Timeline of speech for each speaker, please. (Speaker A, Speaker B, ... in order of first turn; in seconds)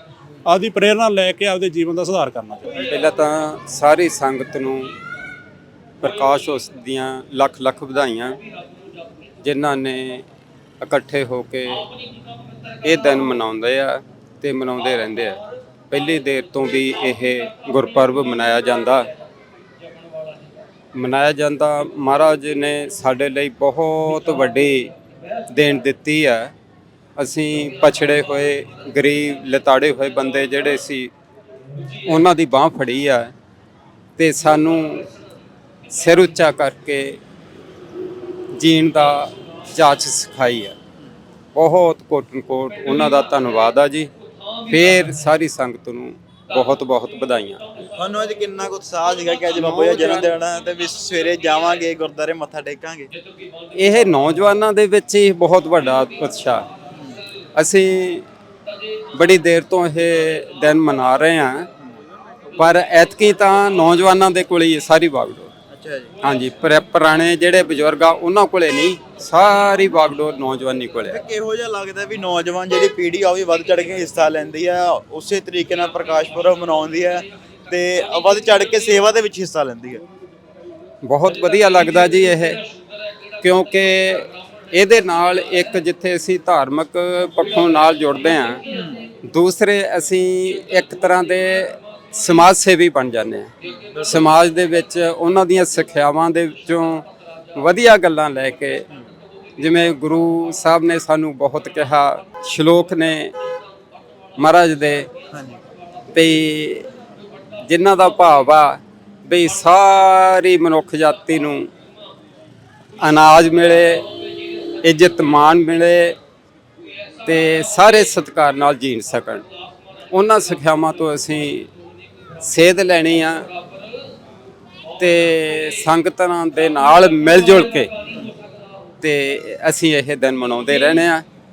Speaker A: 0.5-2.7
Speaker B: 2.7-4.9, 6.0-8.4, 9.4-10.2, 10.8-11.9, 12.8-15.4, 15.9-19.1, 20.9-24.9, 25.5-26.5, 27.2-31.1, 32.1-33.3, 34.2-35.1, 35.9-37.2, 38.6-40.8, 41.5-44.1, 44.7-47.6, 49.6-50.3, 53.8-56.6, 57.6-58.2, 59.1-61.7, 62.6-65.5, 66.2-71.2, 81.0-82.6, 83.4-88.6, 89.3-93.5, 94.0-98.8, 99.6-103.3, 104.4-105.1, 106.1-106.9, 107.7-111.7, 113.0-114.1, 114.8-116.2, 117.3-119.5, 120.1-121.7, 122.4-123.5, 125.0-127.9, 129.0-131.2
Speaker C: 48.0-53.1, 65.7-66.2, 71.1-80.0, 88.7-89.0, 93.7-94.3, 105.3-105.6